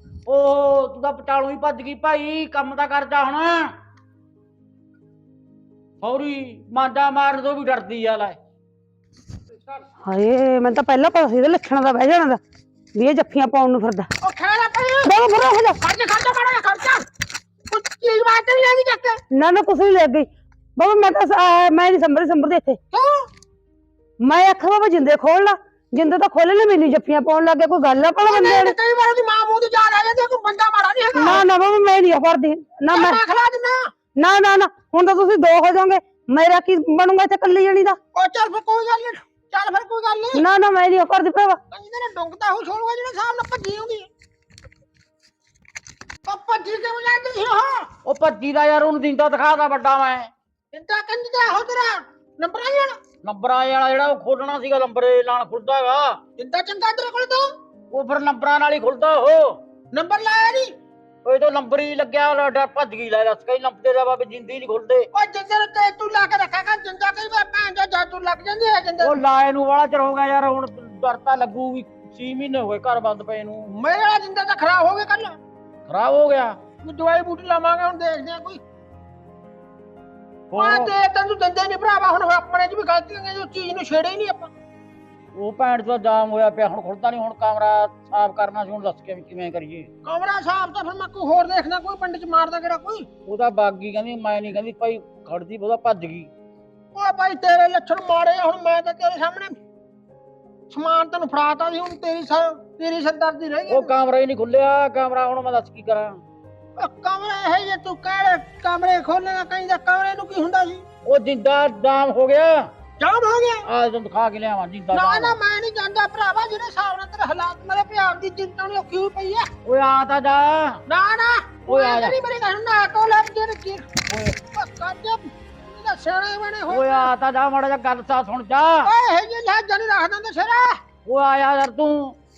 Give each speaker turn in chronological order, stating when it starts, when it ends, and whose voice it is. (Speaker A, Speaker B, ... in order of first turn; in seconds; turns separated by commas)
Speaker A: 0.3-3.7, Speaker A: 6.0-8.4, Speaker B: 10.1-12.4, Speaker B: 12.9-14.1, Speaker C: 14.2-15.1, Speaker B: 15.0-15.8, Speaker C: 15.8-17.0, Speaker C: 17.7-19.2, Speaker B: 19.3-22.8, Speaker C: 22.9-23.3, Speaker B: 24.2-28.7, Speaker C: 28.2-31.4, Speaker B: 31.1-33.2, Speaker C: 32.9-33.9, Speaker B: 34.2-38.0, Speaker C: 38.1-40.4, Speaker B: 40.3-41.6, Speaker C: 41.7-44.1, Speaker C: 46.2-47.9, Speaker A: 48.0-50.3, Speaker C: 50.7-53.0, Speaker A: 53.2-56.2, Speaker C: 56.4-57.5, Speaker A: 57.9-59.6, Speaker C: 59.9-60.7, Speaker A: 61.2-65.1, Speaker C: 65.1-69.2, Speaker A: 69.0-73.7, Speaker C: 73.7-75.4, Speaker A: 75.9-76.6, Speaker C: 76.8-78.6, Speaker A: 80.5-81.0, Speaker C: 80.6-84.5, Speaker A: 85.3-89.9, Speaker C: 90.0-93.1, Speaker A: 93.2-96.3, Speaker C: 96.9-99.5, Speaker C: 100.7-103.9, Speaker A: 103.7-106.2, Speaker C: 106.8-110.8, Speaker A: 111.0-112.7, Speaker C: 113.0-113.6, Speaker A: 113.7-115.4, Speaker C: 114.9-119.5, Speaker A: 119.6-120.8, Speaker C: 120.9-123.9, Speaker A: 121.7-122.2, Speaker A: 124.1-124.4, Speaker C: 124.5-127.1, Speaker A: 126.7-128.9, Speaker C: 128.8-130.8, Speaker A: 131.1-132.1